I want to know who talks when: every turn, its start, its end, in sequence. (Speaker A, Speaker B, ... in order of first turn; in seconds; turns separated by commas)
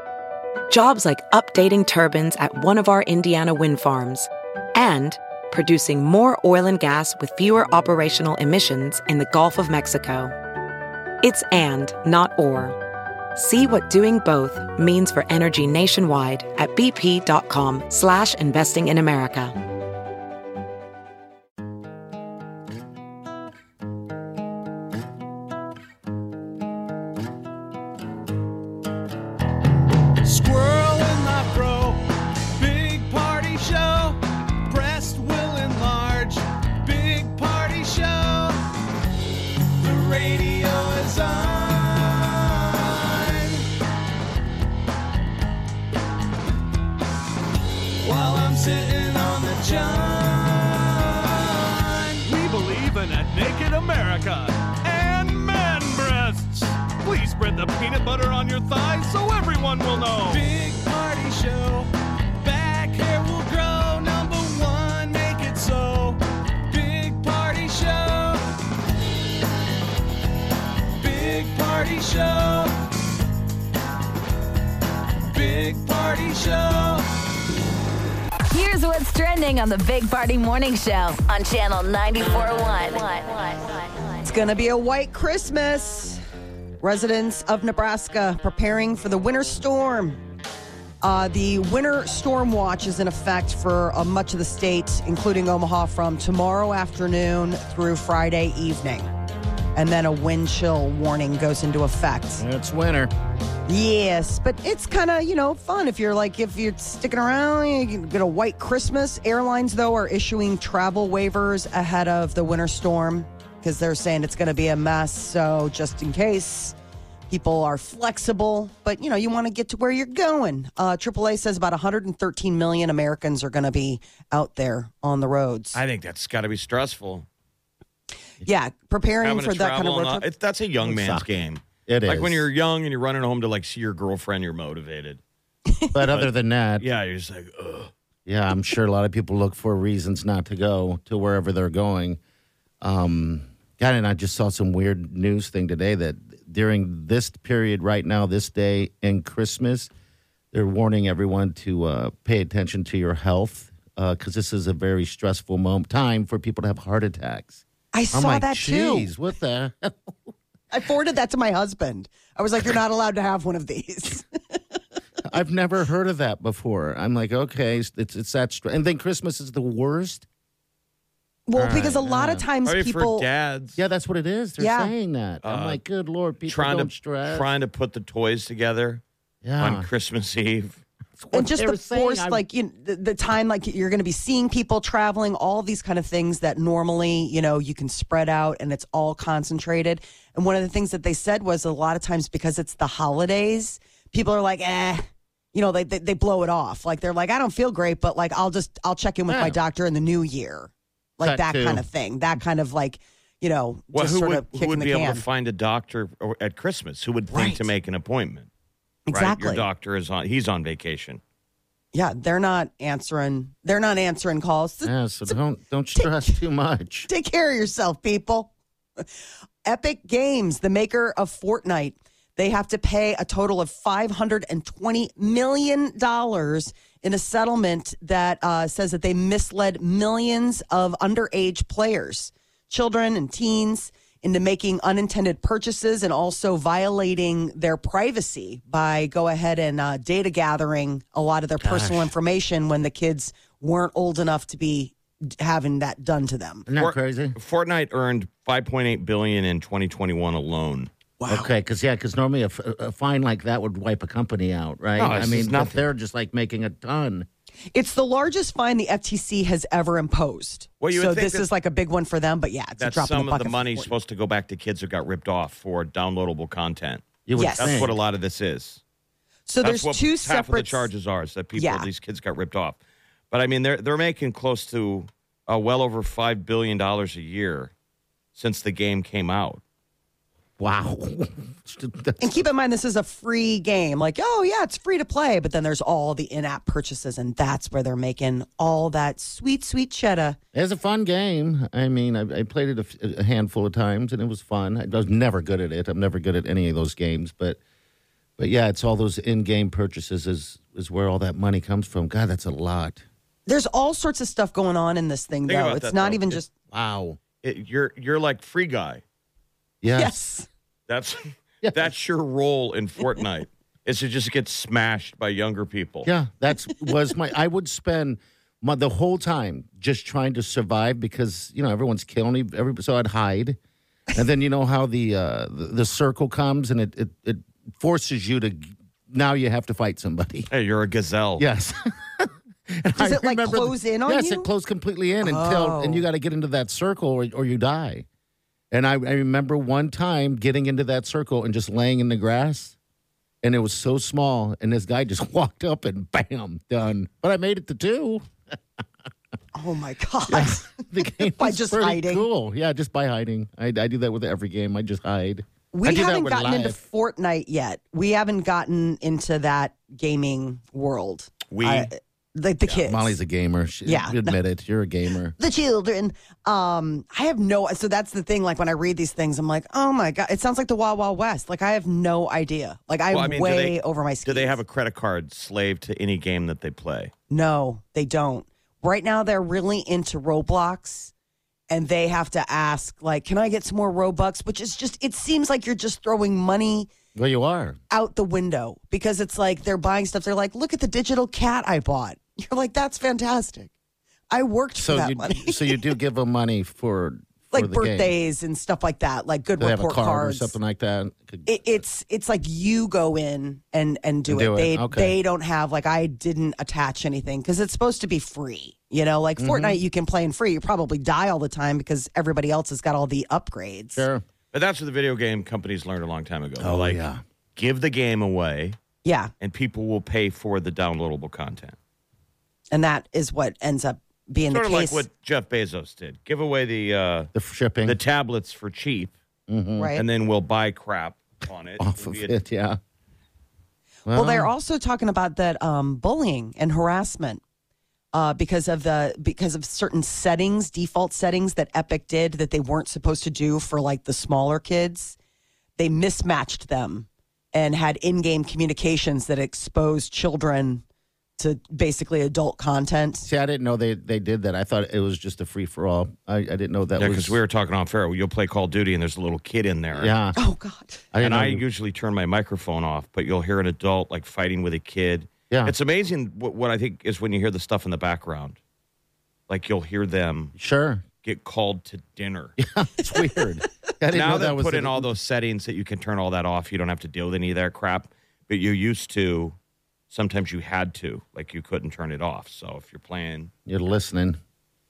Speaker A: 0.7-10.3, Speaker A: 11.2-12.8, Speaker A: 13.3-19.6, Speaker B: 30.2-32.0, Speaker B: 32.5-38.5, Speaker B: 39.8-43.6, Speaker B: 48.0-68.4, Speaker B: 71.0-72.7, Speaker B: 75.3-77.0, Speaker C: 78.5-83.9, Speaker D: 84.2-86.2, Speaker D: 86.8-90.2, Speaker D: 91.0-99.1, Speaker D: 99.8-102.5, Speaker E: 102.4-103.1, Speaker D: 103.7-116.8, Speaker D: 117.3-125.8, Speaker F: 125.7-127.2, Speaker D: 128.4-130.2, Speaker F: 129.2-135.2, Speaker E: 130.8-131.3, Speaker E: 131.9-132.5, Speaker E: 135.9-136.9, Speaker F: 136.1-137.9, Speaker E: 138.2-142.2, Speaker E: 142.8-149.9, Speaker E: 150.5-160.3, Speaker D: 157.9-159.1, Speaker D: 160.7-164.6, Speaker E: 165.3-170.2, Speaker D: 171.5-173.3, Speaker E: 171.6-172.4, Speaker F: 172.7-173.8, Speaker E: 173.8-177.5, Speaker D: 174.6-174.9, Speaker F: 175.4-175.8, Speaker F: 176.5-179.0, Speaker E: 179.4-179.9, Speaker F: 179.6-180.8, Speaker E: 181.2-182.4, Speaker D: 181.3-205.2, Speaker E: 199.3-199.6, Speaker E: 201.2-201.8, Speaker F: 203.9-208.5, Speaker D: 207.3-207.7, Speaker D: 209.1-209.7, Speaker F: 209.1-211.2, Speaker D: 211.9-215.4, Speaker E: 214.8-217.1, Speaker D: 215.9-216.4, Speaker D: 217.1-218.5, Speaker D: 219.7-246.7, Speaker E: 241.6-242.1, Speaker E: 246.7-247.4, Speaker F: 246.8-250.9, Speaker D: 251.2-251.5, Speaker E: 251.3-257.3, Speaker F: 255.0-255.9, Speaker D: 257.7-263.9, Speaker F: 260.8-261.5, Speaker F: 262.8-268.8, Speaker E: 267.2-267.9, Speaker D: 267.4-267.8, Speaker D: 269.5-270.9, Speaker F: 269.6-272.8, Speaker D: 271.5-271.9, Speaker F: 273.3-277.7, Speaker F: 278.4-279.6, Speaker E: 280.6-282.4, Speaker D: 282.2-290.4, Speaker E: 290.5-297.6, Speaker E: 298.4-303.0, Speaker D: 303.5-306.5, Speaker F: 305.5-306.4, Speaker E: 306.7-307.2, Speaker F: 307.4-309.0, Speaker E: 309.8-310.2, Speaker D: 309.9-310.5, Speaker F: 310.9-316.1, Speaker E: 311.6-311.9, Speaker E: 316.0-323.6, Speaker E: 324.1-330.5, Speaker F: 330.5-331.4, Speaker E: 331.4-338.1, Speaker D: 333.0-334.5, Speaker D: 335.2-336.1, Speaker E: 338.7-342.8, Speaker E: 343.4-348.3, Speaker D: 349.5-352.3, Speaker E: 350.3-356.8, Speaker D: 355.7-363.2, Speaker F: 361.5-361.9, Speaker E: 362.7-365.4, Speaker D: 363.9-364.4, Speaker D: 365.4-374.6, Speaker F: 373.1-377.1, Speaker D: 377.3-381.1, Speaker D: 381.7-386.9, Speaker E: 387.1-387.8, Speaker D: 387.9-393.7, Speaker D: 394.3-395.9, Speaker E: 394.8-398.1, Speaker D: 397.5-400.6, Speaker E: 399.6-401.8, Speaker D: 401.4-414.1, Speaker E: 404.3-405.2, Speaker E: 409.4-409.8, Speaker E: 413.9-414.2, Speaker F: 414.5-417.0, Speaker E: 416.6-417.2, Speaker F: 417.6-418.8, Speaker D: 419.0-419.3, Speaker F: 419.4-421.8, Speaker D: 422.7-425.0, Speaker F: 424.5-427.3, Speaker E: 427.3-428.0, Speaker F: 427.9-429.1, Speaker E: 429.5-429.9, Speaker D: 429.8-430.0, Speaker F: 429.9-432.4, Speaker E: 431.8-432.8, Speaker E: 434.1-434.5, Speaker D: 434.1-437.4, Speaker D: 438.1-445.2, Speaker D: 445.8-450.8, Speaker D: 451.4-453.3, Speaker E: 453.2-457.4, Speaker F: 457.0-460.1, Speaker E: 459.9-460.4, Speaker D: 460.4-461.0, Speaker E: 461.1-461.6, Speaker F: 461.2-468.6, Speaker F: 469.5-470.5, Speaker E: 470.6-471.1, Speaker F: 471.2-472.6, Speaker E: 472.6-475.1, Speaker F: 474.1-479.6, Speaker F: 480.1-483.5, Speaker E: 483.7-484.4